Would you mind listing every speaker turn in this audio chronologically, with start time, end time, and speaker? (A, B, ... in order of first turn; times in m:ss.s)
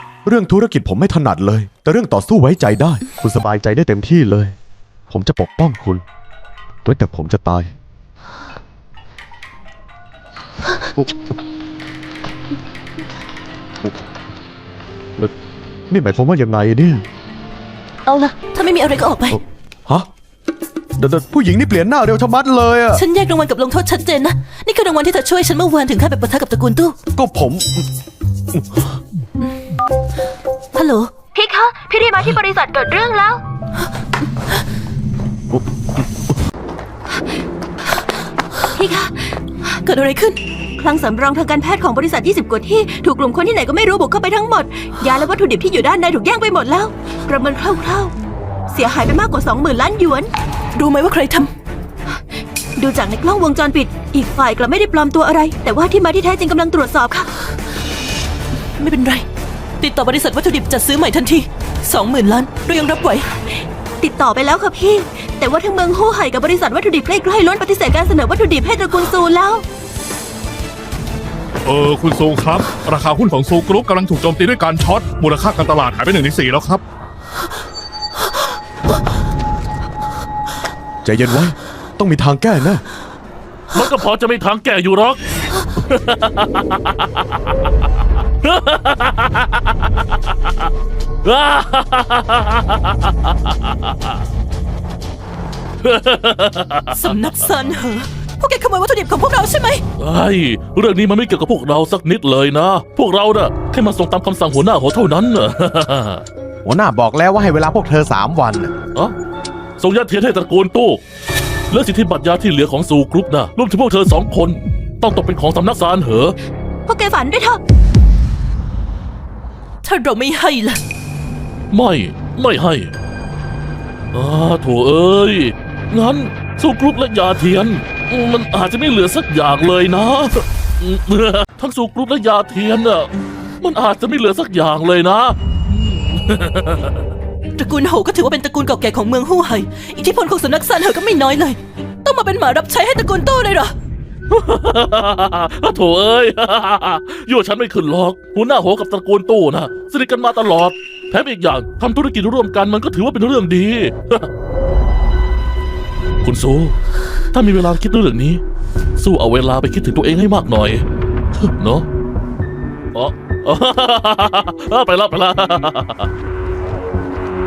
0:00.2-0:04.6 A
0:05.1-0:06.0 A
0:06.8-0:07.7 A
0:15.9-0:17.0 A
0:18.1-0:19.4 B
0:19.3-0:20.1 A
0:21.0-0:23.0 A
0:22.9-0:27.0 B
0:27.2-0:27.9 A
0:28.5-0:28.9 A
0:30.7-0:31.1 B
0:31.3-0:33.4 C
0:38.8-0:39.4 C
0:39.8-0:40.4 B
0:40.8-0:48.1 C
0:48.7-0:50.3 C
0:50.8-0:51.5 B
0:52.8-0:57.3 C
0:58.8-0:59.3 B
0:59.8-1:03.3 B
1:04.0-1:09.6 C
1:11.6-1:16.8 D
1:21.0-1:22.8 A
1:23.7-1:25.2 E
1:25.8-1:27.5 E
1:28.4-1:30.7 E
1:31.2-1:34.2 E
1:35.8-1:37.2 E
1:36.9-1:39.8 B
1:40.0-1:46.2 E
1:46.6-1:48.7 A
1:49.8-1:51.0 E
1:51.7-1:56.4 E
1:56.9-1:57.6 C
1:59.8-2:00.8 B
2:01.7-2:02.9 E
2:04.1-2:17.1 E
2:17.6-2:23.7 B
2:24.3-2:34.3 E
2:36.2-2:36.8 E
2:37.3-2:38.4 E
2:39.0-2:40.8 E
2:41.6-2:41.9 E
2:43.0-2:46.1 E